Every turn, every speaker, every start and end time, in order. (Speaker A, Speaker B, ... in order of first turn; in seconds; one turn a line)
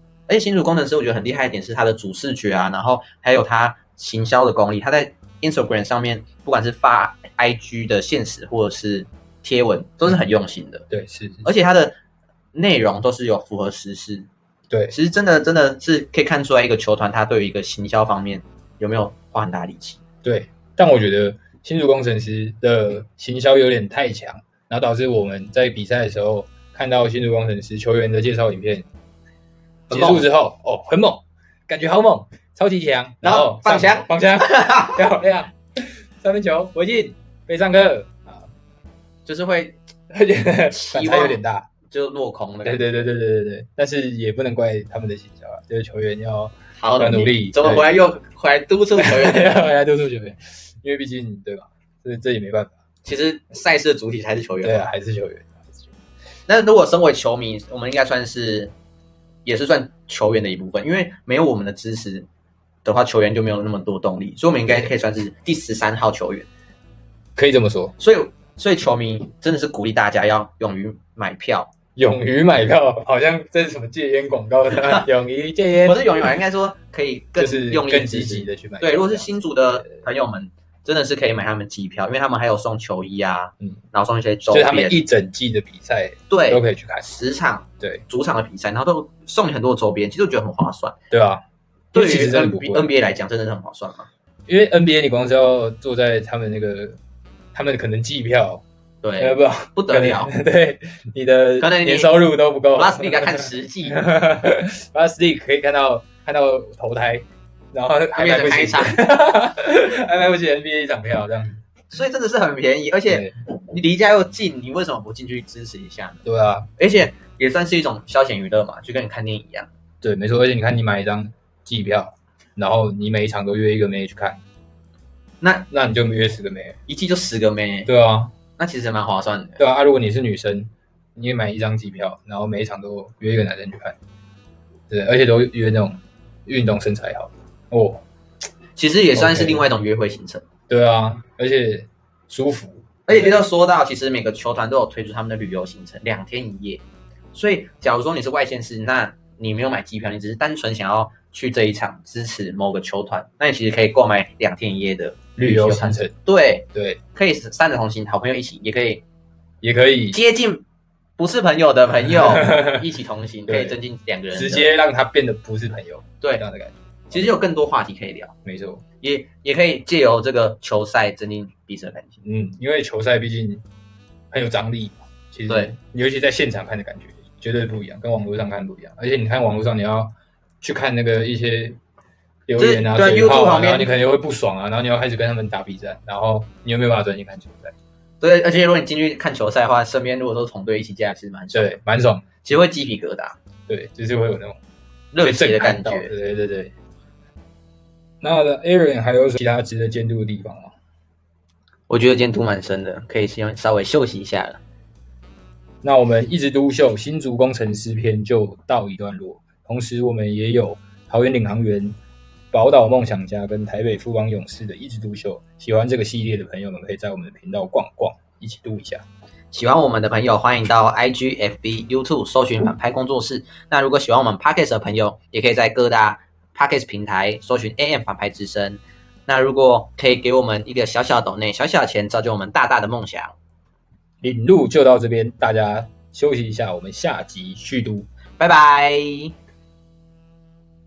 Speaker A: 0.3-10.9
Speaker B: 10.9-11.5
Speaker A: 11.4-12.0
Speaker A: 12.5-14.3
Speaker A: 14.9-20.0
Speaker B: 20.2-28.9
Speaker B: 29.9-35.5
Speaker A: 29.9-30.3
Speaker A: 33.2-35.0
Speaker B: 36.2-38.5
Speaker A: 39.2-39.8
Speaker B: 40.1-41.7
Speaker A: 40.7-42.8
Speaker B: 42.6-47.9
Speaker A: 46.8-49.6
Speaker B: 49.0-52.8
Speaker A: 53.0-54.8
Speaker B: 54.6-55.9
Speaker A: 56.5-58.7
Speaker A: 59.4-62.3
Speaker A: 62.8-66.5
Speaker B: 67.3-67.9
Speaker A: 68.0-71.7
Speaker B: 72.0-76.1
Speaker A: 74.8-75.0
Speaker A: 75.8-85.0
Speaker B: 77.4-79.8
Speaker B: 84.5-87.2
Speaker A: 86.3-91.0
Speaker B: 91.1-91.4
Speaker B: 91.9-92.9
Speaker A: 91.9-94.1
Speaker B: 94.5-97.0
Speaker B: 97.5-98.6
Speaker A: 99.0-100.3
Speaker B: 99.2-111.6
Speaker A: 101.6-102.2
Speaker A: 102.7-104.0
Speaker A: 108.1-109.0
Speaker A: 111.9-116.2
Speaker B: 113.1-113.3
Speaker B: 116.2-116.7
Speaker A: 116.8-119.7
Speaker B: 120.0-124.4
Speaker A: 125.4-125.7
Speaker B: 125.7-126.8
Speaker A: 126.9-127.9
Speaker B: 127.9-128.3
Speaker A: 128.6-129.6
Speaker B: 129.6-134.0
Speaker B: 134.9-138.0
Speaker A: 138.8-140.4
Speaker B: 139.1-139.7
Speaker B: 140.7-143.4
Speaker A: 143.1-159.0
Speaker B: 155.4-156.1
Speaker B: 156.7-157.0
Speaker B: 159.6-160.2
Speaker A: 160.1-160.6
Speaker A: 161.2-164.7
Speaker B: 162.4-162.8
Speaker B: 163.5-163.8
Speaker B: 164.3-167.4
Speaker A: 167.1-168.3
Speaker B: 168.4-168.8
Speaker A: 169.0-172.2
Speaker B: 172.2-173.6
Speaker B: 174.3-181.8
Speaker A: 175.5-175.7
Speaker B: 182.5-187.7
Speaker A: 182.6-183.9
Speaker A: 188.2-191.8
Speaker B: 191.5-192.2
Speaker A: 192.4-193.3
Speaker B: 193.7-194.6
Speaker A: 195.1-196.1
Speaker B: 195.2-196.7
Speaker B: 198.2-200.7
Speaker A: 201.9-204.6
Speaker B: 205.8-211.9
Speaker B: 212.5-219.0
Speaker A: 219.5-233.3
Speaker B: 234.2-238.1
Speaker A: 238.4-239.3